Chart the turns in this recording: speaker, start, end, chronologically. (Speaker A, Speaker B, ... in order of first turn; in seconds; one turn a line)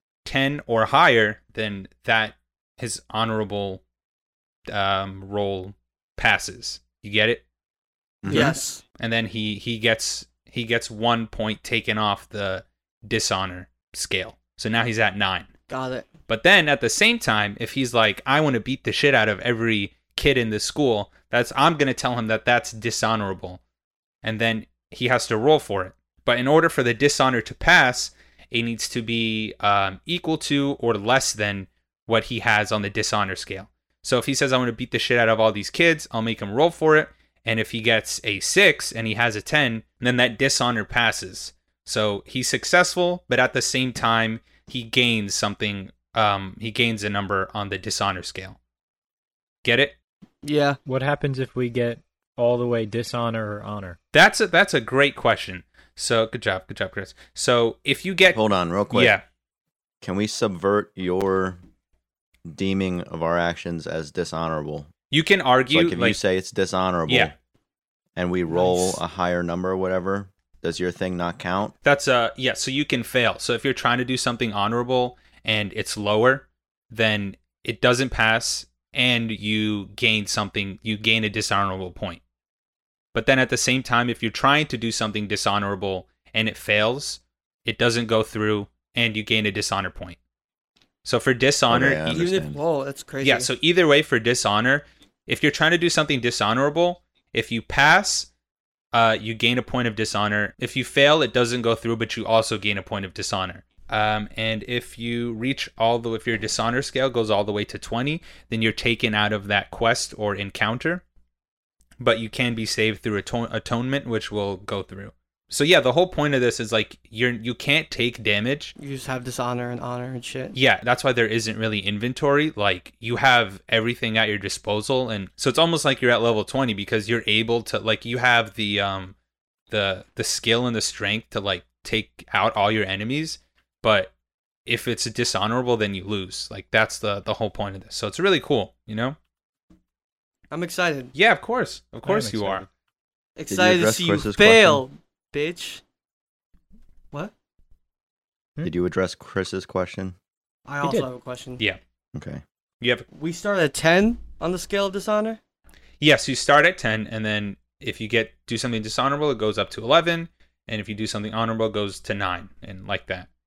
Speaker A: 0.2-3.8
Speaker A: 4.7-7.4
Speaker B: 8.2-8.6
Speaker C: 8.3-8.8
Speaker A: 8.3-15.5
Speaker C: 15.7-16.1
Speaker A: 16.3-23.6
Speaker A: 24.2-48.6
Speaker A: 49.6-50.0
Speaker C: 50.4-50.8
Speaker D: 50.9-54.0
Speaker A: 54.1-59.2
Speaker B: 58.3-59.1
Speaker B: 60.0-61.6
Speaker B: 62.5-64.9
Speaker A: 65.1-66.2
Speaker B: 65.7-67.3
Speaker B: 68.2-71.7
Speaker C: 68.5-69.0
Speaker A: 71.8-82.2
Speaker A: 83.1-90.2
Speaker A: 91.0-92.2
Speaker B: 91.7-92.6
Speaker C: 92.1-93.5
Speaker A: 93.2-98.3
Speaker A: 98.9-111.0
Speaker A: 112.0-118.8
Speaker C: 118.8-120.6
Speaker A: 120.5-129.2
Speaker A: 129.7-134.1
Speaker A: 134.7-139.2
Speaker C: 140.5-141.1
Speaker A: 141.2-142.7
Speaker D: 142.1-142.7
Speaker C: 143.4-145.8
Speaker B: 143.5-144.8
Speaker B: 148.6-150.2
Speaker C: 150.7-151.6
Speaker B: 152.1-152.4
Speaker A: 152.8-153.1
Speaker C: 153.1-155.4
Speaker A: 156.0-163.3